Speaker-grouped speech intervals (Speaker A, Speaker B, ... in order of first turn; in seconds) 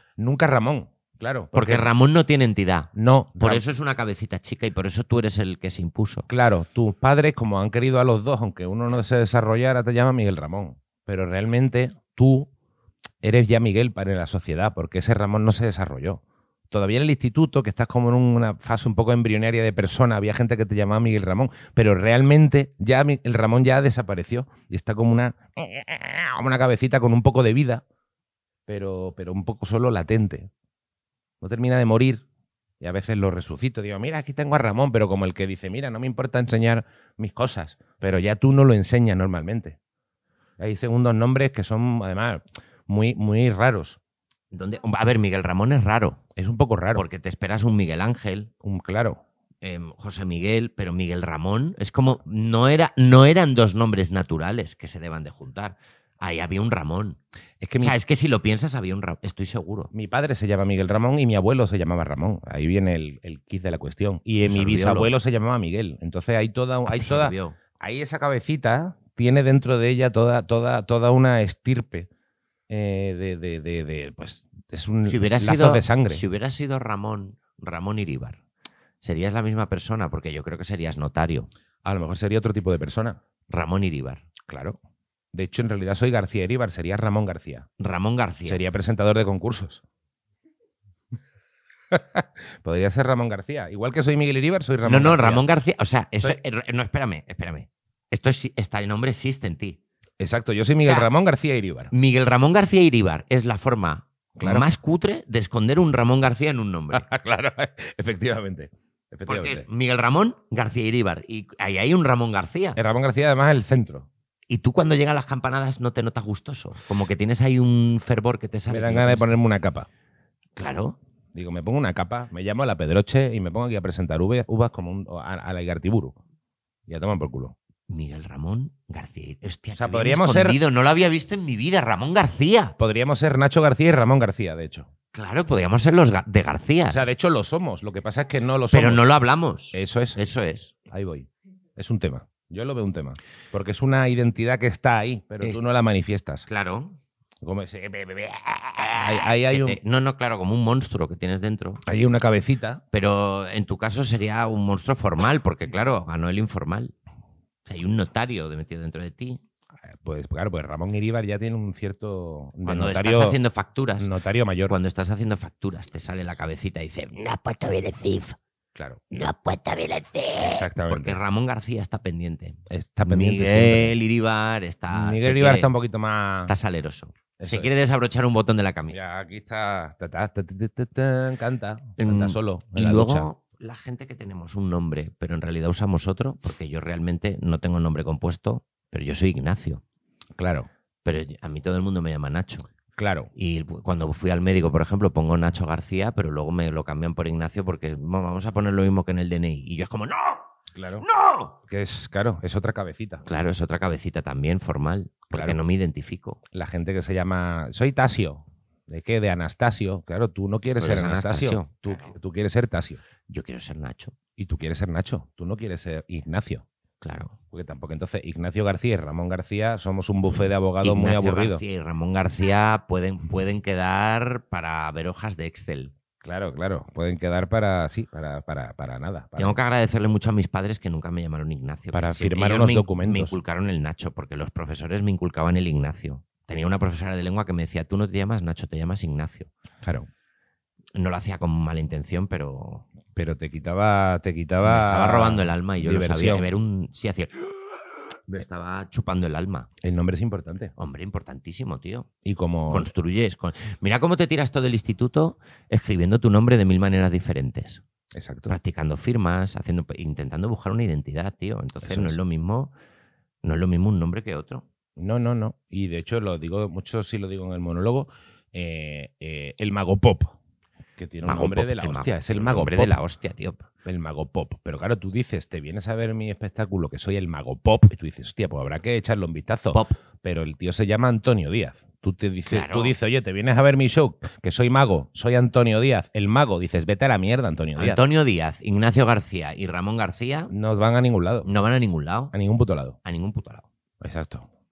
Speaker A: 0.2-1.9, 2.9-3.6, 6.3-12.5, 13.2-27.8, 28.7-30.5, 31.4-32.2, 32.8-39.8, 40.6-44.0, 46.4-47.0, 48.6-49.2, 57.6-58.0, 59.9-72.1, 72.7-76.2, 81.8-83.2, 84.5-84.8, 85.3-87.7, 88.4-89.8, 91.9-95.4, 100.2-101.9, 104.4-104.7, 106.9-109.7, 112.8-114.1, 118.7-119.9, 121.3-126.2, 126.9-127.5, 129.7-130.6, 132.8-134.9, 136.9-139.1, 139.7-140.2, 140.9-146.5, 147.4-149.8, 151.8-152.8, 159.8-163.4, 164.0-164.8, 168.7-169.0, 170.4-171.2, 172.7-173.9, 174.9-176.5, 177.4-177.7, 178.9-183.3, 190.4-190.7, 193.0-193.3, 200.7-201.0, 201.7-203.2, 206.5-213.0, 214.4-216.6, 217.5-221.6, 226.2-229.6, 231.9-233.3, 239.8-240.1, 243.1-246.5, 249.8-250.7, 252.2-252.9, 258.1-258.5, 261.8-262.2, 265.0-270.4, 271.0-272.9, 273.8-288.0, 290.5-291.5, 292.3-292.9, 294.0-294.5
Speaker B: 1.5-6.3, 44.5-46.2, 46.9-48.5, 49.6-57.2, 57.8-59.9, 64.4-65.1, 66.9-67.5, 75.0-78.4, 79.0-81.5, 83.5-84.2, 87.8-88.6, 94.8-99.8, 100.8-101.1, 101.9-107.0, 109.3-112.8, 114.5-119.3, 120.5-121.0, 127.9-132.7, 135.1-137.1, 138.7-140.7, 146.5-147.0, 148.8-151.8, 152.9-156.9, 157.7-159.4, 162.6-164.1, 164.7-168.4, 169.1-175.7, 176.5-179.0, 182.0-189.8, 191.0-192.7, 193.3-201.6, 203.2-206.4, 210.8-212.1, 213.3-214.1, 217.0-217.4, 220.8-225.9, 229.4-239.5, 240.9-242.8, 244.6-247.6, 248.3-249.7, 250.8-252.1, 252.7-257.8, 258.5-262.7, 263.4-264.6, 271.2-273.7, 282.4-282.9, 287.8-290.5, 291.4-292.3, 293.0-293.7